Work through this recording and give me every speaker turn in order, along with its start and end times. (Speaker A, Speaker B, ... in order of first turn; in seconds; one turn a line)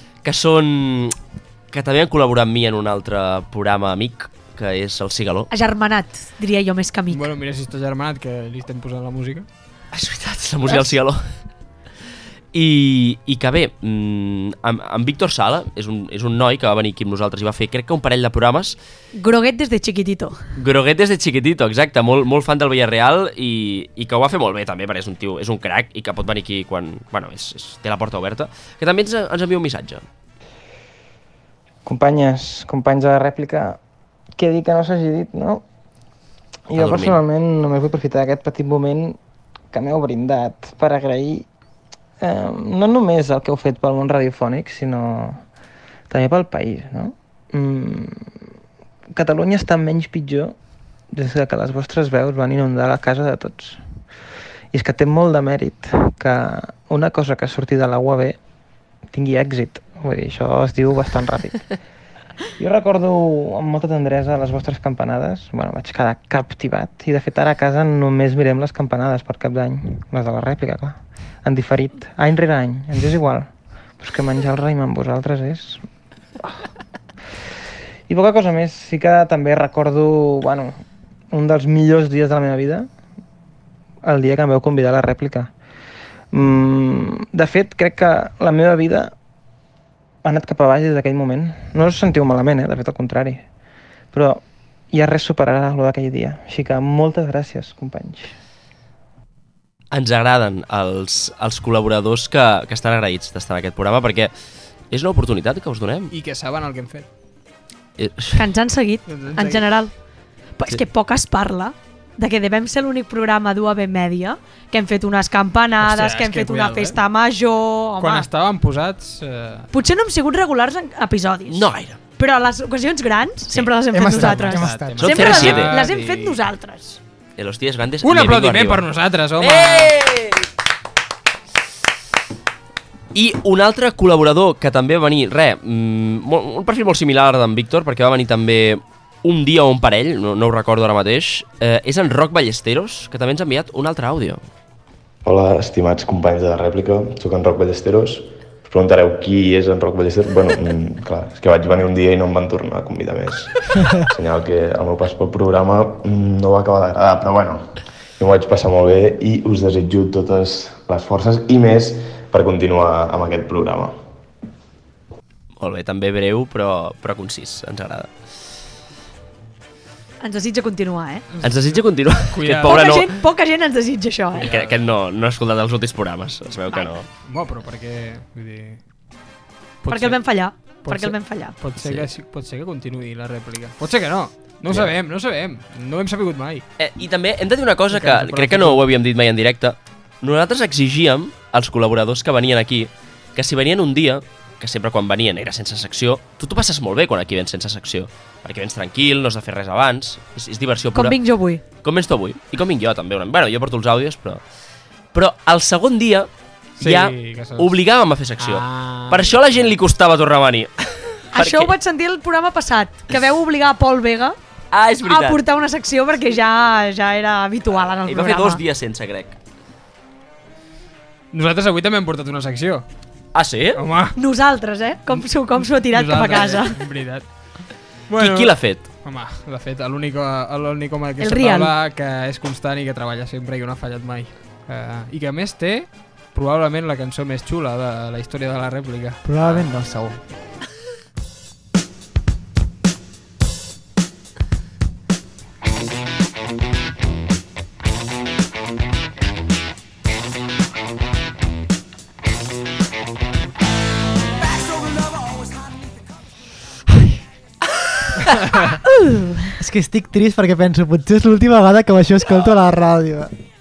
Speaker A: 0.2-1.1
Speaker A: 1.7-5.5
Speaker B: 5.5-7.3
Speaker C: 7.1-9.4
Speaker A: 9.9-11.2
Speaker A: 12.5-18.8
Speaker B: 19.1-20.4
Speaker A: 20.6-30.1
Speaker D: 31.9-33.8
Speaker D: 34.4-35.6
Speaker D: 36.7-39.2
Speaker A: 36.8-37.2
Speaker D: 39.7-41.5
Speaker D: 42.2-45.4
Speaker D: 46.1-48.3
Speaker D: 49.1-50.5
Speaker D: 51.1-53.8
Speaker D: 54.7-58.4
Speaker D: 59.1-61.6
Speaker D: 62.6-75.8
Speaker D: 78.1-82.9
Speaker D: 84.0-85.5
Speaker D: 86.3-89.1
Speaker D: 90.2-93.4
Speaker D: 94.1-98.3
Speaker A: 99.9-104.3
Speaker A: 104.9-106.1
Speaker C: 106.1-107.1
Speaker A: 108.0-108.4
Speaker B: 108.3-110.0
Speaker C: 109.1-109.7
Speaker B: 110.5-118.3
Speaker C: 115.8-117.0
Speaker C: 118.0-119.7
Speaker B: 119.7-127.0
Speaker A: 121.5-122.0
Speaker E: 123.9-125.2
Speaker C: 124.2-126.4
Speaker A: 125.0-125.8
Speaker A: 127.4-128.8
Speaker C: 128.0-129.9
Speaker A: 129.4-130.5
Speaker A: 133.1-144.4
Speaker F: 145.2-164.0
Speaker A: 165.6-168.1
Speaker B: 170.2-171.2
Speaker C: 171.3-172.8
Speaker A: 171.4-173.1
Speaker B: 172.6-174.5
Speaker C: 174.3-174.8
Speaker A: 174.4-177.1
Speaker C: 177.2-178.8
Speaker C: 179.8-180.2
Speaker B: 179.9-181.6
Speaker C: 180.8-186.6
Speaker A: 181.8-182.1
Speaker A: 186.8-201.2
Speaker C: 187.9-188.8
Speaker B: 200.9-201.6
Speaker A: 201.8-204.4
Speaker A: 205.1-211.7
Speaker C: 206.8-207.8
Speaker C: 208.4-209.4
Speaker B: 211.3-214.4
Speaker A: 214.7-215.4
Speaker B: 215.0-218.6
Speaker A: 218.0-219.4
Speaker C: 221.3-222.8
Speaker A: 223.3-223.8
Speaker C: 223.7-224.2
Speaker B: 224.1-226.8
Speaker C: 225.2-227.6
Speaker C: 228.1-239.2
Speaker A: 228.2-228.8
Speaker B: 231.2-231.7
Speaker E: 239.2-240.2
Speaker B: 258.8-259.5
Speaker E: 259.6-263.3